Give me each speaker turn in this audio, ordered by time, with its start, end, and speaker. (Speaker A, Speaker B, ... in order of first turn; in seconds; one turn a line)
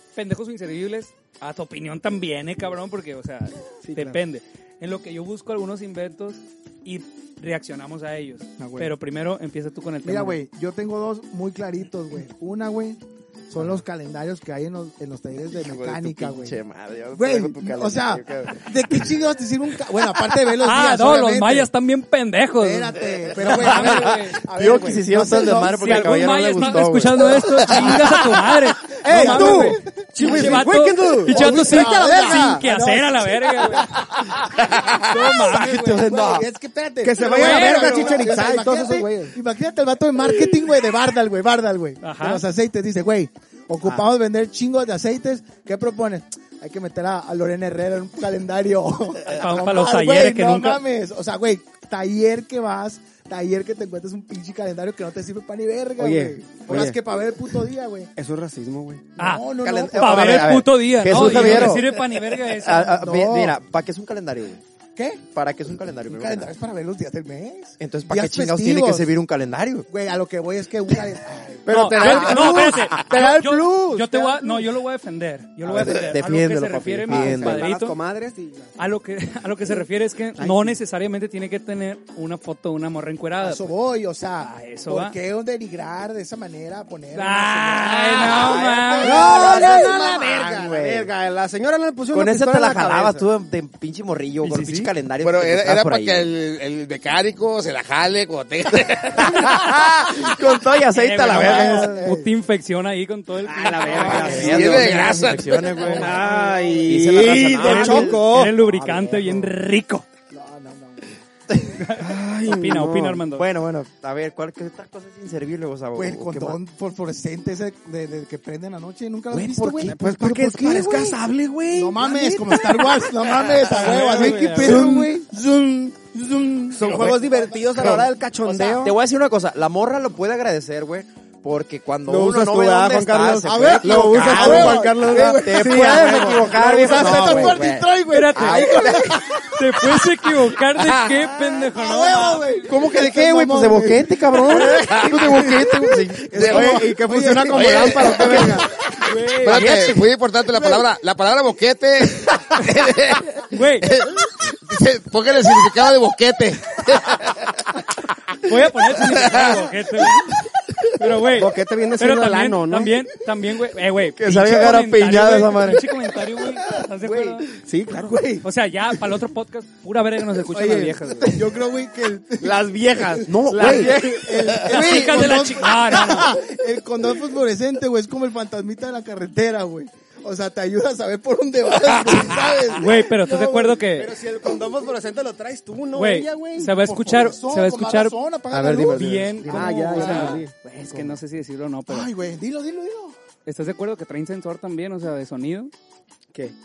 Speaker A: 0.1-10.4
Speaker B: 3.8-4.2
Speaker B: 8.6-8.9
Speaker C: 10.0-16.6
Speaker D: 15.5-18.7
Speaker C: 17.1-21.7
Speaker A: 20.6-24.4
Speaker C: 22.6-26.4
Speaker D: 23.4-28.1
Speaker A: 25.7-34.0
Speaker C: 27.7-28.2
Speaker B: 29.0-32.7
Speaker C: 29.1-30.7
Speaker C: 31.2-58.1
Speaker A: 34.9-36.2
Speaker D: 35.3-36.5
Speaker B: 37.0-39.3
Speaker A: 37.2-38.3
Speaker A: 42.0-42.4
Speaker D: 43.8-44.1
Speaker A: 49.2-50.8
Speaker B: 56.0-57.0
Speaker B: 58.1-59.1
Speaker C: 59.2-61.8
Speaker A: 59.2-63.1
Speaker D: 59.6-64.6
Speaker C: 63.0-63.6
Speaker C: 65.0-65.2
Speaker D: 65.3-66.5
Speaker C: 66.1-69.1
Speaker D: 67.8-69.9
Speaker C: 69.9-73.2
Speaker B: 71.7-74.7
Speaker A: 71.7-78.0
Speaker D: 72.0-72.7
Speaker D: 75.7-77.7
Speaker B: 77.1-78.7
Speaker A: 78.8-83.7
Speaker B: 80.4-80.8
Speaker C: 83.4-90.9
Speaker A: 84.4-85.2
Speaker A: 87.1-89.4
Speaker D: 88.3-91.1
Speaker B: 88.6-93.2
Speaker D: 92.1-96.3
Speaker A: 94.4-94.9
Speaker E: 95.2-100.0
Speaker D: 99.2-102.1
Speaker A: 100.9-105.2
Speaker C: 101.3-102.2
Speaker B: 101.8-102.2
Speaker B: 103.5-105.1
Speaker C: 103.9-105.0
Speaker D: 103.9-109.3
Speaker E: 104.2-105.8
Speaker B: 105.8-109.3
Speaker C: 105.8-106.9
Speaker A: 107.1-110.0
Speaker C: 110.3-111.2
Speaker A: 111.7-113.5
Speaker B: 112.0-113.2
Speaker D: 113.3-116.6
Speaker C: 115.9-121.2
Speaker D: 119.3-120.7
Speaker B: 119.8-123.1
Speaker C: 121.7-128.1
Speaker A: 123.6-124.9
Speaker B: 123.8-125.1
Speaker B: 126.7-128.9
Speaker D: 128.4-139.3
Speaker B: 132.1-137.7
Speaker C: 133.4-140.1
Speaker A: 138.1-142.5
Speaker C: 141.7-149.0
Speaker D: 142.6-146.6
Speaker B: 144.7-145.1
Speaker E: 144.8-145.3
Speaker B: 146.3-148.7
Speaker E: 146.3-146.9
Speaker E: 147.5-148.7
Speaker A: 149.0-149.8
Speaker E: 149.4-157.8
Speaker D: 149.5-149.8
Speaker A: 153.5-153.9
Speaker A: 158.4-160.3
Speaker E: 159.0-159.7
Speaker A: 160.9-167.5
Speaker B: 161.2-163.0
Speaker B: 164.2-165.8
Speaker D: 167.0-167.4
Speaker B: 167.5-168.4
Speaker C: 167.9-168.4
Speaker A: 168.4-171.4
Speaker B: 170.5-171.4
Speaker C: 171.3-183.8
Speaker B: 172.4-175.2
Speaker D: 173.2-174.1
Speaker A: 174.7-176.3
Speaker A: 182.8-184.1
Speaker B: 183.9-186.7
Speaker A: 185.9-188.2
Speaker C: 186.6-190.4
Speaker D: 188.5-189.4
Speaker A: 188.9-192.1
Speaker B: 189.4-191.1
Speaker C: 191.9-193.2
Speaker A: 193.4-195.7